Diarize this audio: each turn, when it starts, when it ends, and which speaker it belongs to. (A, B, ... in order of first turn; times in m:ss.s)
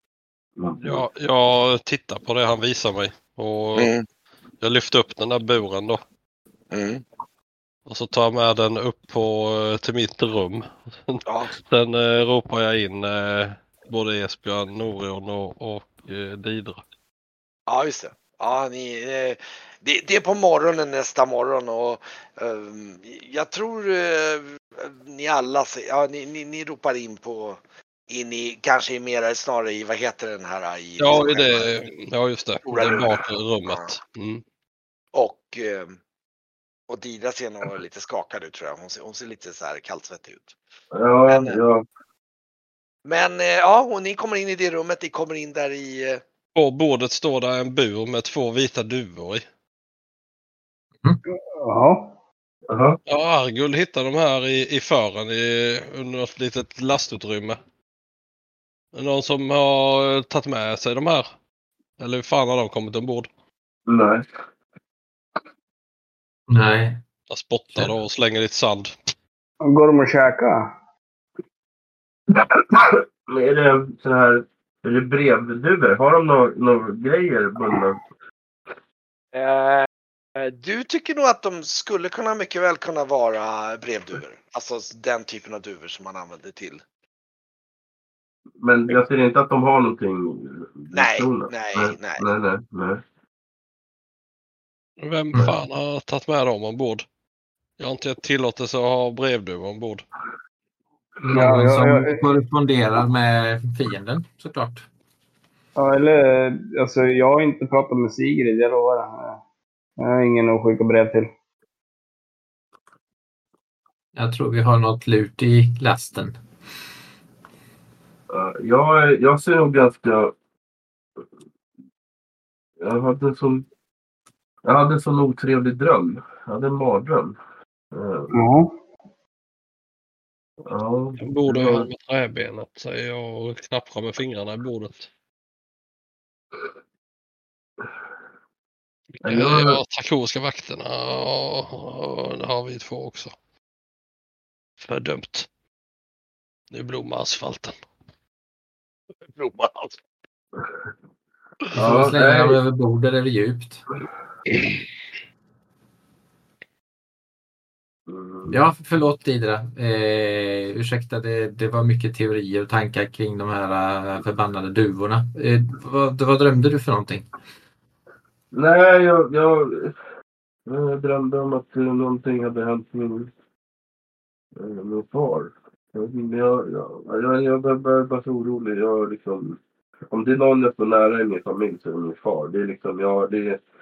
0:00.6-0:01.0 A
0:00.8-0:03.9 B
0:03.8-0:04.0 C
0:04.6-0:06.0 B
0:06.7-0:07.0 C
0:07.9-0:16.8 B
0:11.2-0:11.5 C
0:17.7-0:31.8 C
0:31.0-0:34.4 B
0:32.6-0:33.1 C
0:33.6-0:33.9 C
0:35.1-0:36.0 C
0:36.9-0:40.6 C
0:40.9-0:41.8 A
0:41.3-0:41.6 C
0:43.0-0:46.2 C
0:46.5-0:49.4 B
0:51.6-0:52.1 D
0:52.7-0:53.0 A
0:53.1-0:57.6 B
0:58.9-1:01.3 B
1:02.0-1:03.3 B
1:03.9-1:04.3 A
1:06.5-1:07.0 E
1:07.3-1:08.9 B
1:09.6-1:10.6 D
1:12.3-1:18.0 A
1:19.3-1:26.8 C
1:28.6-1:33.0 A
1:30.9-1:32.2 C
1:35.0-1:37.0 B
1:37.8-1:40.0 B
1:41.2-1:44.8 E
1:41.3-1:42.2 D
1:45.8-1:49.4 D
1:50.0-1:51.3 D
1:54.1-1:56.3 E
1:58.3-2:00.3 A
2:02.8-2:03.7 A
2:04.6-2:07.4 A
2:07.9-2:08.3 A
2:08.3-2:08.7 D
2:10.6-2:11.9 A
2:11.2-2:15.1 B
2:19.2-2:23.3 B
2:19.2-2:19.8 A
2:24.8-2:25.5 B
2:26.7-2:27.7 B
2:29.3-2:30.0 C
2:31.7-2:33.8 E
2:31.7-2:32.6 A
2:38.1-2:38.6 A
2:38.5-2:47.3 E
2:48.5-2:49.9 A
2:50.7-2:53.3 A
2:54.5-3:03.6 A